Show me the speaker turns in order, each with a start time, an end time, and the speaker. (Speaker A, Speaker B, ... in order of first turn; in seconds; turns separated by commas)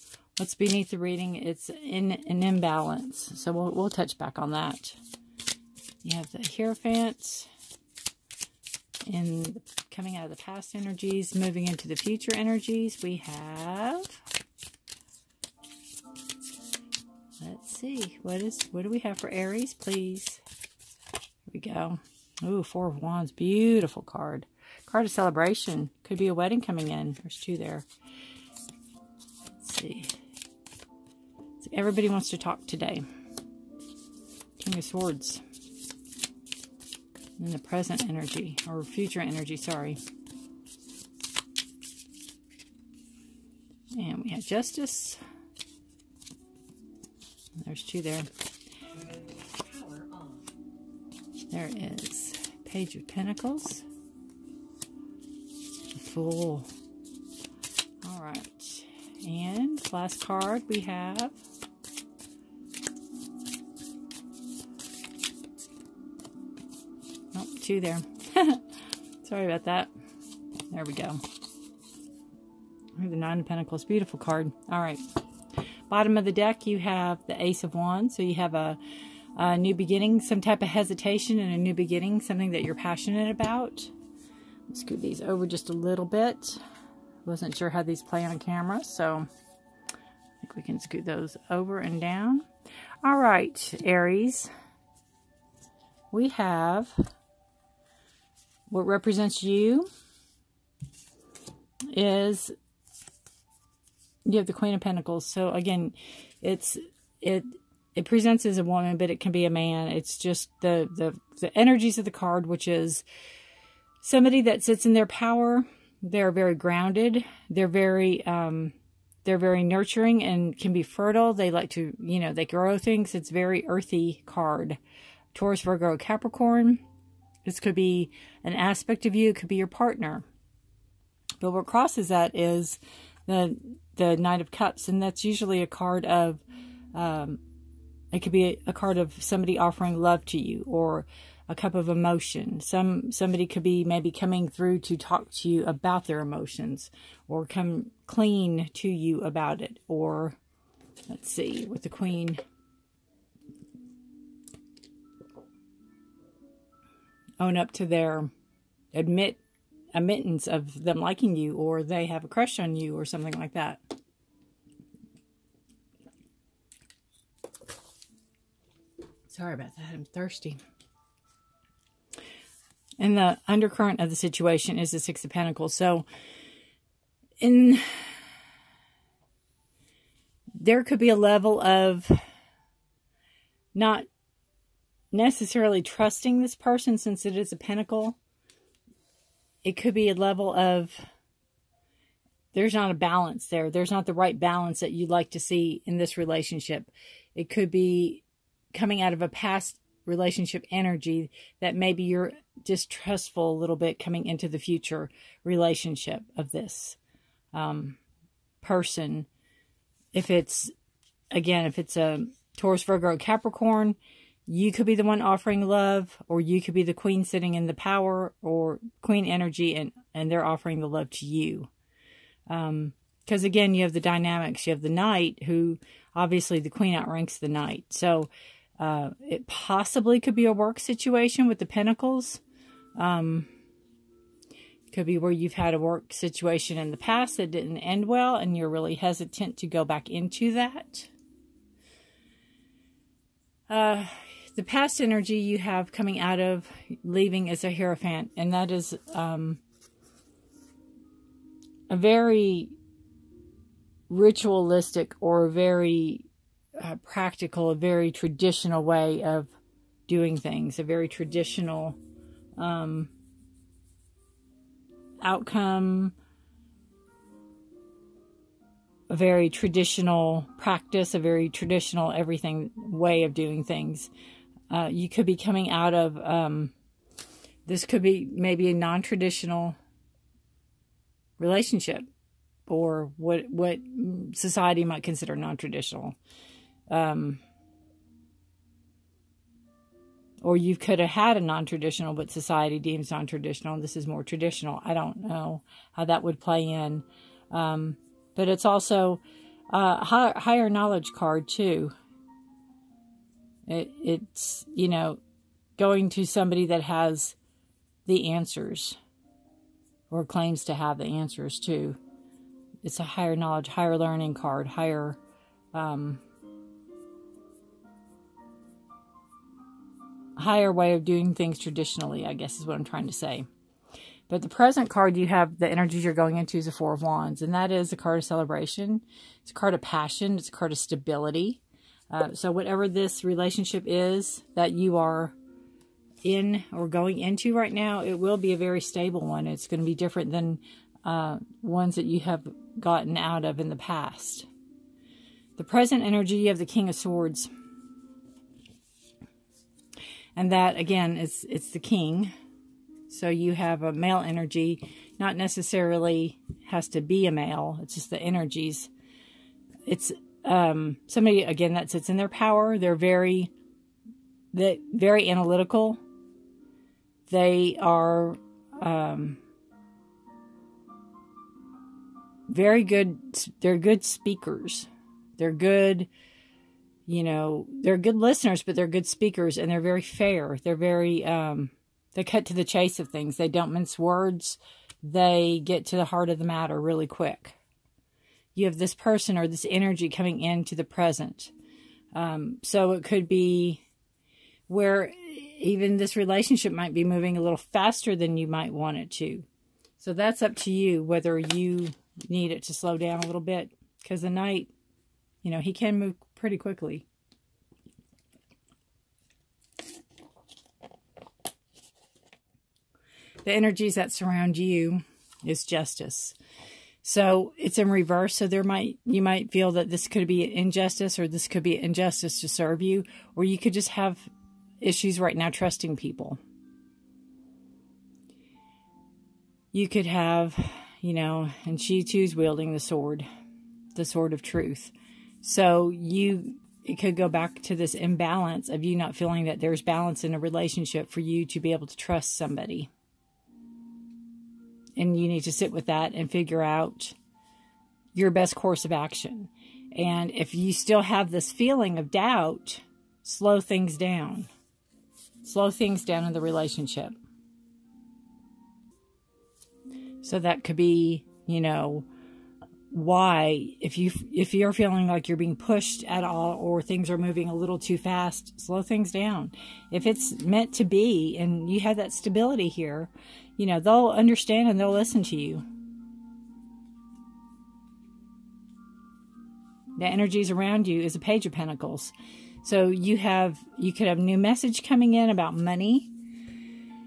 Speaker A: 0.4-5.0, Speaker A: 6.0-7.5, Speaker A: 9.1-14.2, Speaker A: 17.4-20.4, Speaker A: 21.5-27.9, Speaker A: 29.6-30.1, Speaker A: 31.6-33.0, Speaker A: 34.6-35.4, Speaker A: 37.4-40.0, Speaker A: 44.0-45.2, Speaker A: 47.6-48.3, Speaker A: 51.5-53.9, Speaker A: 55.9-56.7, Speaker A: 58.0-61.4, Speaker A: 67.3-69.9, Speaker A: 70.7-71.2, Speaker A: 73.0-75.0, Speaker A: 75.9-78.8, Speaker A: 79.4-83.9, Speaker A: 84.7-86.6, Speaker A: 87.2-89.3, Speaker A: 90.4-92.5, Speaker A: 93.0-94.5, Speaker A: 96.1-96.9, Speaker A: 98.7-99.9, Speaker A: 101.9-102.5, Speaker A: 104.3-113.0, Speaker A: 114.0-124.8, Speaker A: 125.3-126.8, Speaker A: 127.5-130.3, Speaker A: 131.4-136.4, Speaker A: 136.9-137.4, Speaker A: 138.1-150.4, Speaker A: 151.1-152.4, Speaker A: 157.4-158.3, Speaker A: 158.9-159.4, Speaker A: 159.9-163.8, Speaker A: 169.3-170.6, Speaker A: 173.0-176.1, Speaker A: 177.4-178.2, Speaker A: 180.6-182.2, Speaker A: 183.7-184.1, Speaker A: 185.1-188.2, Speaker A: 189.6-191.0, Speaker A: 192.5-207.0, Speaker A: 207.5-208.0, Speaker A: 208.6-209.3, Speaker A: 210.1-210.7, Speaker A: 211.3-221.7, Speaker A: 222.5-232.4, Speaker A: 233.0-233.5, Speaker A: 234.9-241.1, Speaker A: 243.7-249.6, Speaker A: 251.9-252.8, Speaker A: 254.1-259.5, Speaker A: 260.1-262.0, Speaker A: 262.6-263.1, Speaker A: 265.2-266.1, Speaker A: 269.1-274.1, Speaker A: 274.7-276.7, Speaker A: 277.6-279.8, Speaker A: 281.4-282.1, Speaker A: 282.7-286.2, Speaker A: 286.9-287.4, Speaker A: 290.4-301.9, Speaker A: 303.7-305.2, Speaker A: 305.8-307.4, Speaker A: 308.1-309.0, Speaker A: 310.1-312.0, Speaker A: 312.8-315.2, Speaker A: 315.7-316.2, Speaker A: 320.4-323.5, Speaker A: 324.3-335.4, Speaker A: 336.2-344.5, Speaker A: 345.6-347.5, Speaker A: 350.4-352.3, Speaker A: 353.1-358.9, Speaker A: 359.9-363.5, Speaker A: 364.5-366.0, Speaker A: 367.3-369.4, Speaker A: 372.5-376.1, Speaker A: 377.1-387.6, Speaker A: 388.6-391.5, Speaker A: 392.1-393.8, Speaker A: 394.7-399.5, Speaker A: 400.0-404.7, Speaker A: 405.4-407.1, Speaker A: 413.4-416.4, Speaker A: 417.0-424.3, Speaker A: 424.8-426.4, Speaker A: 429.7-433.3, Speaker A: 433.9-442.9, Speaker A: 445.0-447.1, Speaker A: 448.1-454.5, Speaker A: 455.4-457.1, Speaker A: 460.2-462.1, Speaker A: 462.9-475.7, Speaker A: 480.0-486.1